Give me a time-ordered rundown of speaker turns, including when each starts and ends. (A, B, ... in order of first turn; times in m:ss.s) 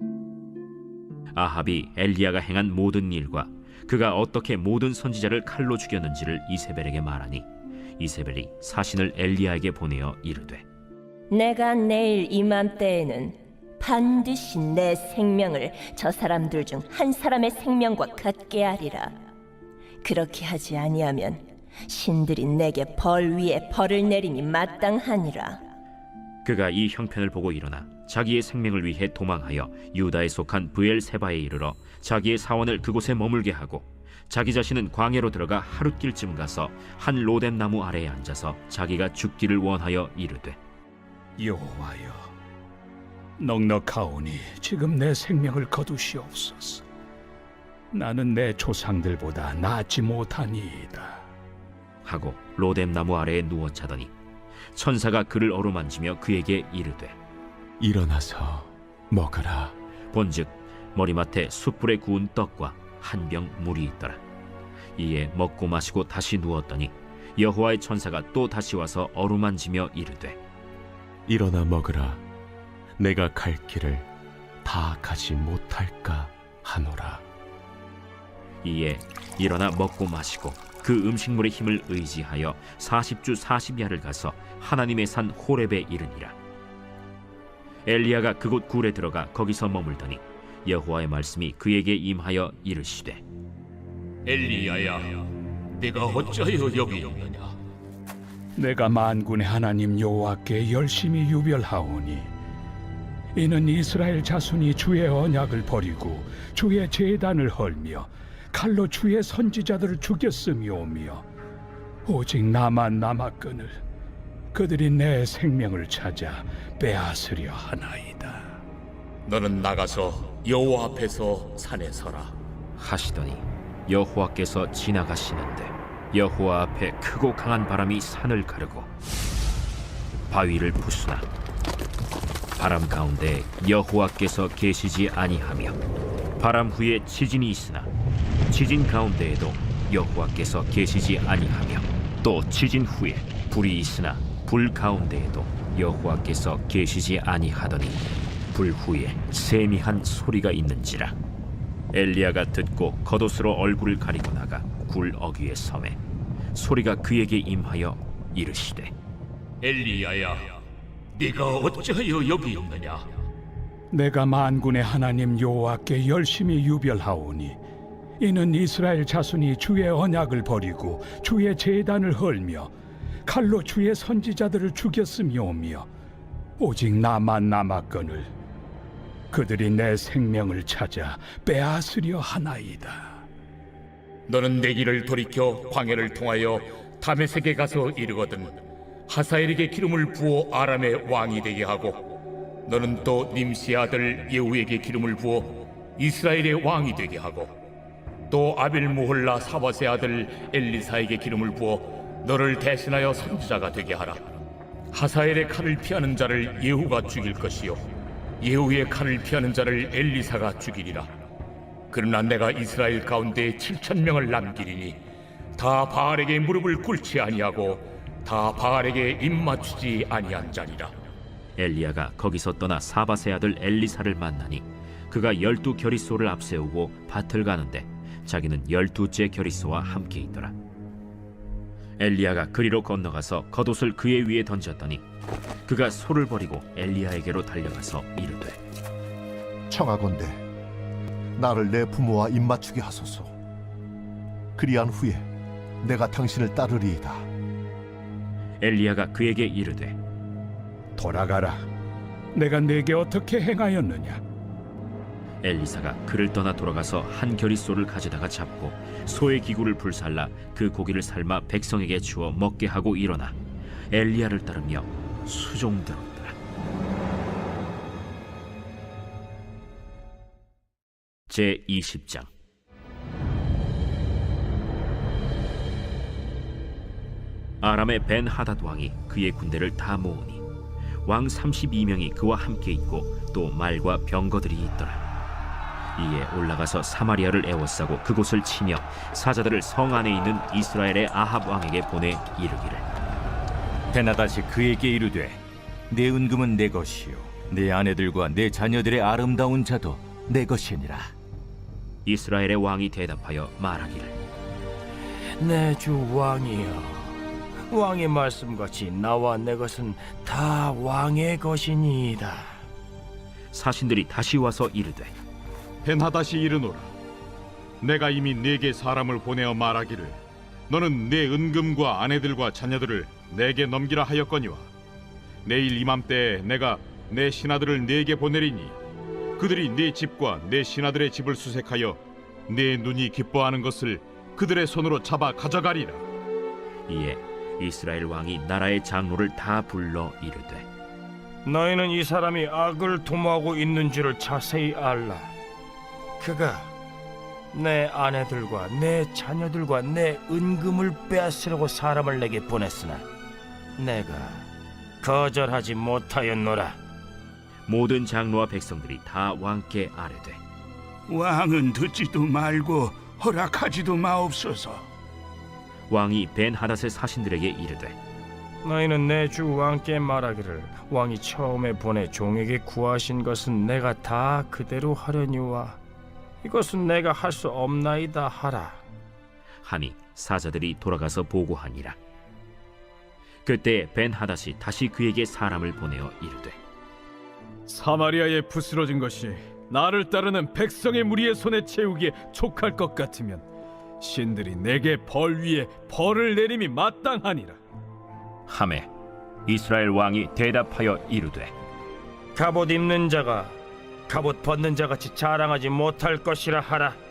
0:01.4-0:07.5 A
0:08.0-0:10.6 A
0:11.3-0:19.1 B
0:20.0-0:25.6 B
0:26.4-0:40.6 A
0:41.4-0:42.3 C
0:43.4-0:46.8 C
0:47.9-0:51.2 C
0:52.0-0:54.1 A
0:54.8-0:57.2 A
0:57.8-0:59.7 D
1:00.1-1:04.2 A
1:05.0-1:10.4 A
1:11.3-1:12.2 D
1:13.0-1:14.0 D
1:14.6-1:17.2 D
1:18.6-1:26.4 A
1:27.9-1:33.2 A
1:34.3-1:37.6 E
1:38.6-1:42.3 C
1:43.4-1:51.2 C
1:52.1-1:53.8 C
1:54.5-1:58.6 C
1:59.2-2:02.4 E
2:02.8-2:08.9 A
2:10.3-2:11.3 A
2:12.6-2:15.8 A
2:16.4-2:17.9 A
2:18.5-2:31.2 A
2:31.9-2:36.0 A
2:36.6-2:38.9 A
2:39.6-2:40.6 E
2:41.2-2:43.1 E
2:43.9-2:47.6 C
2:48.2-2:52.7 C
2:53.3-2:55.9 C
2:56.6-2:58.3 C
2:59.3-3:03.2 C
3:04.3-3:12.1 E
3:12.7-3:17.5 E
3:18.3-3:24.4 E
3:24.9-3:27.8 E
3:28.4-3:31.1 E
3:31.9-3:35.0 E
3:35.6-3:40.9 E
3:41.6-3:50.6 A
3:52.0-3:55.0 A
3:55.7-3:58.6 A
3:59.7-4:00.4 F
4:01.4-4:03.3 F
4:04.6-4:05.3 F
4:05.8-4:07.3 F
4:08.6-4:10.0 A
4:11.0-4:11.6 C
4:12.3-4:14.2 C
4:15.4-4:23.4 A
4:23.9-4:26.4 A
4:31.3-4:32.3 A
4:37.6-4:40.4 A
4:41.1-4:45.0 A
4:46.0-4:52.8 A
4:53.9-5:01.1 G
5:02.1-5:04.2 A
5:05.4-5:12.6 H
5:13.5-5:15.2 A
5:15.8-5:16.9 I
5:17.8-5:24.7 I
5:25.4-5:28.8 I
5:29.4-5:36.0 I
5:36.9-5:40.7 A
5:41.5-5:45.3 H
5:46.2-5:46.7 H
5:47.5-5:53.1 H
5:53.8-5:54.5 H
5:55.0-5:56.8 H
5:57.7-6:00.4 A
6:01.1-6:04.8 C
6:05.9-6:08.0 A
6:08.6-6:15.8 H
6:16.4-6:18.8 H
6:19.6-6:22.0 A
6:23.4-6:26.6 A
6:27.7-6:33.4 J
6:34.0-6:37.6 J
6:38.5-6:38.9 A
6:39.5-6:41.5 A
6:42.4-6:43.6 H
6:44.1-6:47.0 H